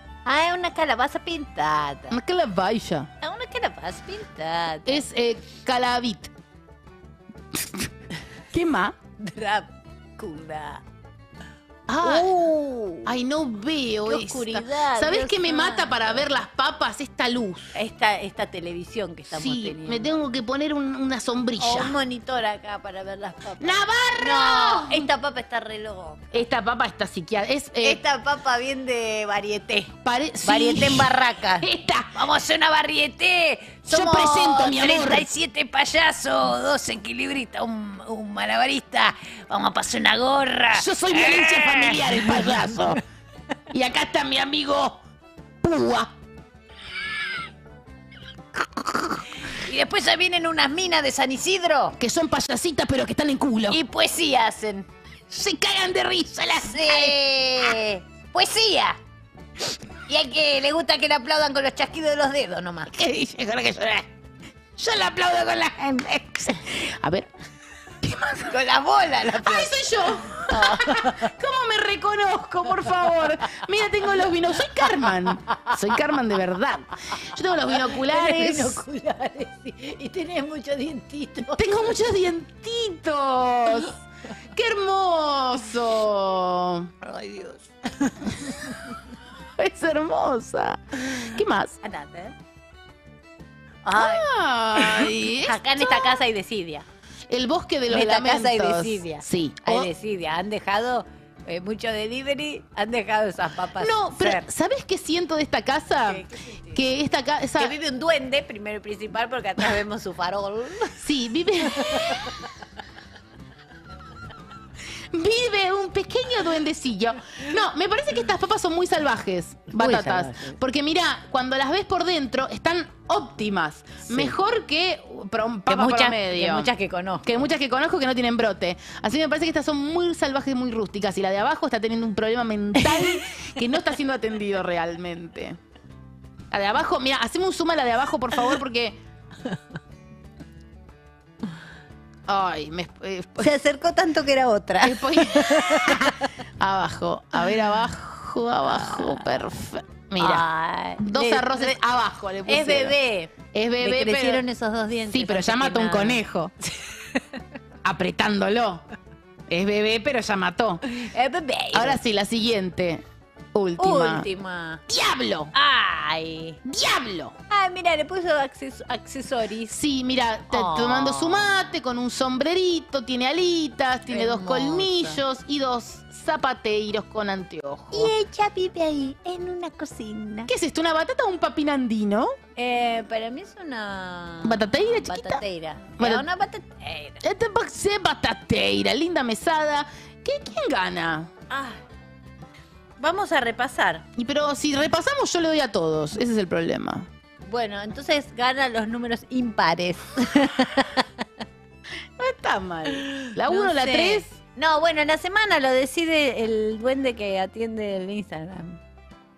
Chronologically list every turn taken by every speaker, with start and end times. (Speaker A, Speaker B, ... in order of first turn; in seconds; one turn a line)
Speaker A: 0.2-2.2
Speaker B: 2.1-3.1
Speaker A: 3.2-5.1
Speaker B: 4.9-6.3
Speaker B: 7.5-7.9
Speaker B: 8.5-9.0
Speaker A: 9.2-10.8
Speaker B: 11.9-12.5
Speaker A: 12.0-13.1
Speaker B: 13.1-17.8
Speaker A: 14.1-16.3
Speaker A: 17.8-20.1
Speaker B: 19.3-22.0
Speaker A: 21.6-26.2
Speaker B: 23.6-25.1
Speaker B: 26.3-28.0
Speaker A: 27.8-29.9
Speaker B: 30.0-32.2
Speaker A: 30.4-42.9
Speaker B: 33.9-35.3
Speaker B: 40.7-43.0
Speaker B: 43.7-45.0
Speaker B: 45.6-46.1
Speaker A: 49.4-52.0
Speaker B: 52.0-53.8
Speaker A: 53.7-54.9
Speaker B: 55.3-57.2
Speaker A: 56.6-59.0
Speaker A: 60.1-62.9
Speaker B: 62.9-64.1
Speaker B: 64.8-67.3
Speaker B: 68.0-68.5
Speaker A: 68.3-71.3
Speaker B: 69.3-78.8
Speaker A: 74.8-75.7
Speaker A: 77.8-82.0
Speaker B: 81.6-84.0
Speaker B: 84.5-86.9
Speaker A: 87.0-88.5
Speaker B: 89.6-91.8
Speaker A: 91.8-92.3
Speaker A: 93.8-96.8
Speaker B: 93.9-96.2
Speaker B: 97.3-99.9
Speaker A: 97.9-104.5
Speaker B: 103.8-107.8
Speaker A: 106.0-106.8
Speaker A: 107.6-111.0
Speaker B: 111.0-112.3
Speaker A: 111.7-112.3
Speaker B: 115.1-126.7
Speaker A: 119.7-120.6
Speaker A: 124.1-124.3
Speaker A: 125.7-127.3
Speaker B: 127.2-135.6
Speaker A: 132.8-133.2
Speaker B: 136.5-139.0
Speaker B: 142.3-143.5
Speaker A: 143.4-146.2
Speaker B: 144.8-150.5
Speaker A: 148.8-149.2
Speaker A: 150.2-151.8
Speaker B: 151.0-153.0
Speaker A: 152.5-156.2
Speaker B: 153.5-154.4
Speaker B: 155.1-156.5
Speaker B: 157.8-158.8
Speaker B: 159.5-160.8
Speaker A: 160.9-162.0
Speaker B: 161.7-164.3
Speaker A: 163.8-164.8
Speaker B: 164.9-165.5
Speaker A: 165.5-166.6
Speaker B: 166.6-167.3
Speaker A: 167.5-169.8
Speaker B: 169.7-178.1
Speaker A: 170.5-171.6
Speaker A: 174.1-175.2
Speaker A: 177.9-180.5
Speaker B: 180.5-182.4
Speaker A: 182.6-187.2
Speaker B: 184.4-185.4
Speaker B: 186.0-186.3
Speaker B: 187.2-191.3
Speaker A: 191.5-191.8
Speaker A: 193.0-194.1
Speaker B: 194.2-197.1
Speaker A: 197.4-201.2
Speaker B: 202.2-204.4
Speaker A: 202.9-208.8